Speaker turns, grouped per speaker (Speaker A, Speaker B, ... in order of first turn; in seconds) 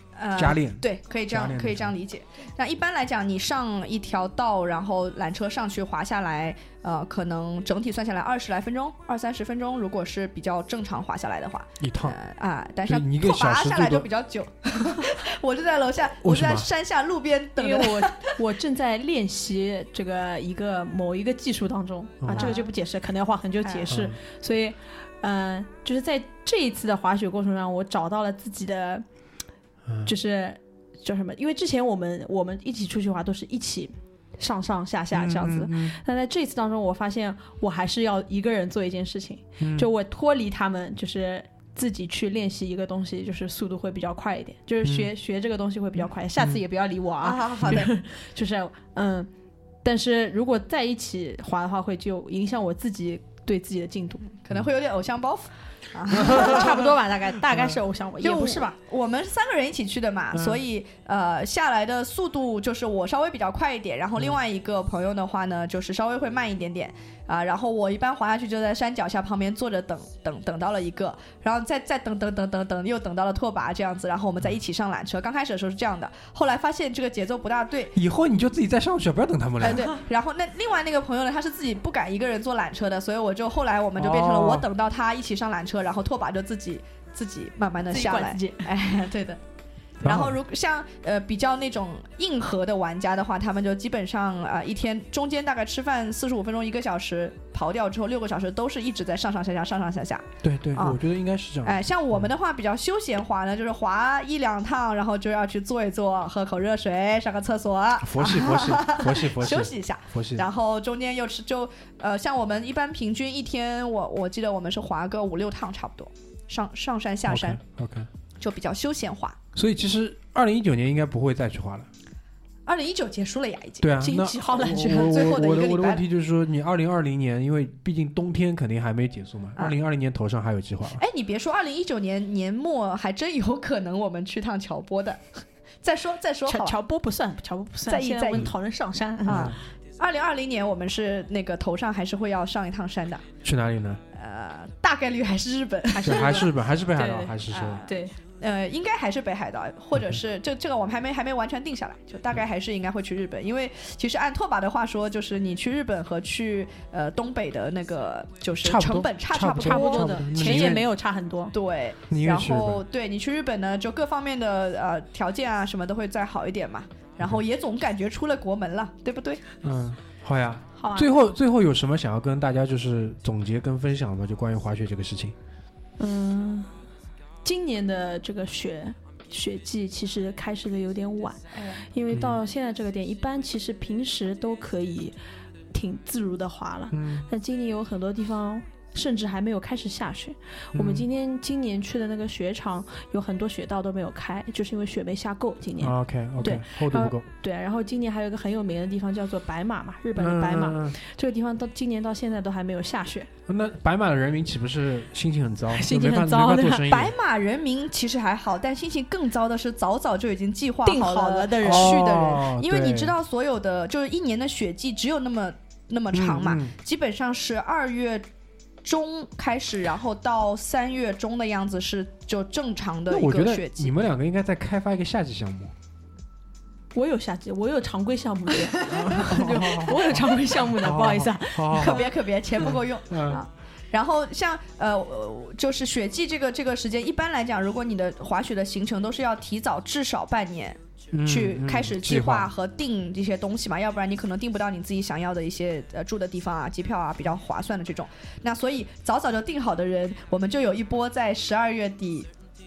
Speaker A: 0.1-18.3, 22.3-22.7, 23.6-23.9, 47.2-47.9, 54.3-56.9, 58.2-77.9, 79.6-89.4, 90.0-101.0, 101.6-117.6, 118.4-119.4, 122.7-126.0, 130.9-136.8, 137.9-138.5, 139.2-143.3, 144.1-146.5, 147.5-160.8, 161.5-169.4, 206.8-218.3, 218.8-223.9, 231.7-252.3
Speaker B: 0.3-1.9, 11.8-12.2, 12.8-14.1, 16.2-16.7, 22.2-22.6, 23.9-24.2, 29.9-30.1, 35.1-36.0, 39.6-39.9, 44.8-45.1, 56.2-56.6, 60.3-60.6, 77.9-80.0, 84.0-84.7, 90.0-90.4, 100.4-102.3, 108.0-110.5, 117.2-118.1, 119.5-121.9, 123.8-131.0, 139.2-139.6, 143.4-144.0, 146.0-147.8, 158.6-160.9, 162.1-162.8, 169.6-175.3, 182.1-182.4, 186.9-187.3, 190.7-191.1, 195.8-197.2, 200.2-201.0, 203.5-207.1, 211.6-213.1, 216.1-216.7, 223.1-225.7, 228.8-233.4, 241.1-242.5
Speaker C: 17.6-29.0, 30.0-49.3, 49.8-54.2, 56.1-58.8, 87.9-88.7, 124.0-125.4, 136.4-139.5, 145.9-148.2, 159.5-161.5, 170.8-171.1, 176.0-176.7, 177.4-185.2, 185.7-203.3, 205.7-206.8, 210.8-212.2, 226.9-232.1